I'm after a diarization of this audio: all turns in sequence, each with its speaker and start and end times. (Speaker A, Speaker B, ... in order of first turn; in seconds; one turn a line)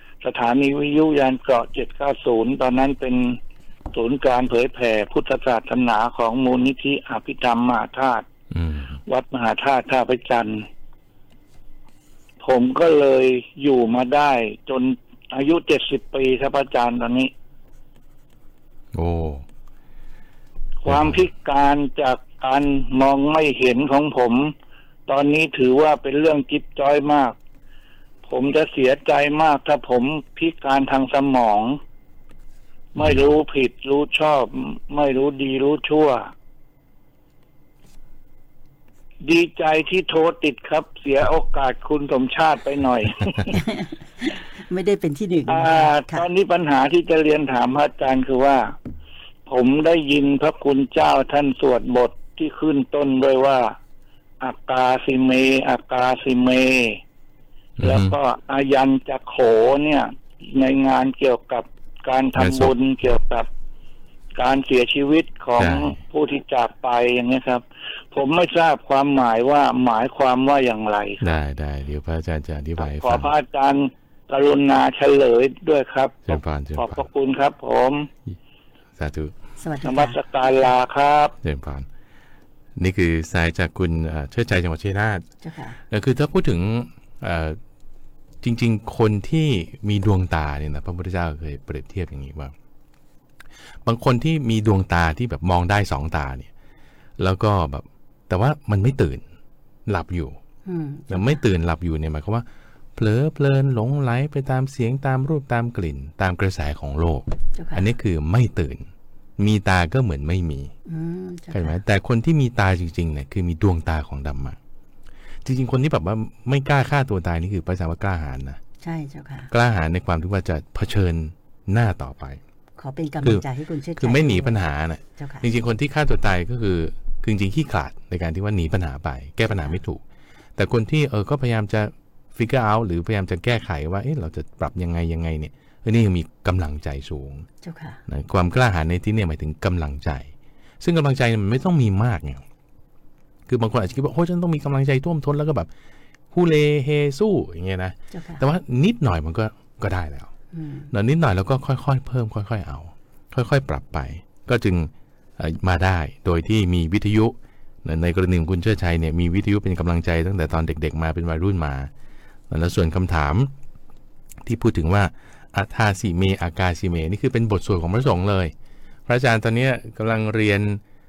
Speaker A: 0.2-3.3
Speaker A: 3.9-8.2
Speaker B: 8.5-9.0
Speaker A: 9.1-10.6
Speaker A: 12.4-17.3
Speaker B: 18.9-19.4
Speaker A: 20.8-24.5
Speaker B: 20.9-21.3
Speaker A: 25.1-27.3
Speaker A: 28.2-31.8
Speaker A: 32.9-36.2
Speaker B: 33.0-33.3
Speaker A: 39.2-43.5
Speaker C: 43.5-46.3
Speaker A: 45.5-48.6
Speaker A: 49.5-53.7
Speaker A: 54.4-57.0
Speaker B: 57.8-58.2
Speaker A: 57.8-63.5
Speaker B: 62.4-62.7
Speaker A: 64.3-71.3
Speaker B: 65.6-66.0
Speaker B: 71.2-73.3
Speaker A: 72.8-78.1
Speaker B: 76.3-77.1
Speaker B: 79.0-79.3
Speaker C: 79.6-80.2
Speaker A: 79.8-81.3
Speaker B: 81.4-81.9
Speaker B: 82.8-85.2
Speaker C: 85.4-85.8
Speaker B: 85.9-87.6
Speaker B: 88.4-92.5
Speaker B: 93.8-96.5
Speaker B: 97.2-99.2
Speaker B: 99.9-100.4
Speaker C: 100.6-101.4
Speaker B: 101.1-110.7
Speaker C: 107.5-107.9
Speaker C: 110.9-111.8
Speaker B: 111.5-114.6
Speaker B: 115.4-118.6
Speaker C: 118.8-119.5
Speaker B: 119.5-122.4
Speaker C: 122.8-124.6
Speaker B: 124.0-130.0
Speaker C: 125.2-125.5
Speaker C: 129.5-129.8
Speaker B: 130.6-137.5
Speaker C: 137.6-138.0
Speaker B: 138.1-142.4
Speaker B: 143.5-145.7
Speaker B: 146.3-150.3
Speaker C: 148.1-148.4
Speaker C: 150.5-150.9
Speaker B: 150.9-161.9
Speaker B: 162.5-163.5
Speaker B: 164.4-168.5
Speaker B: 169.1-170.8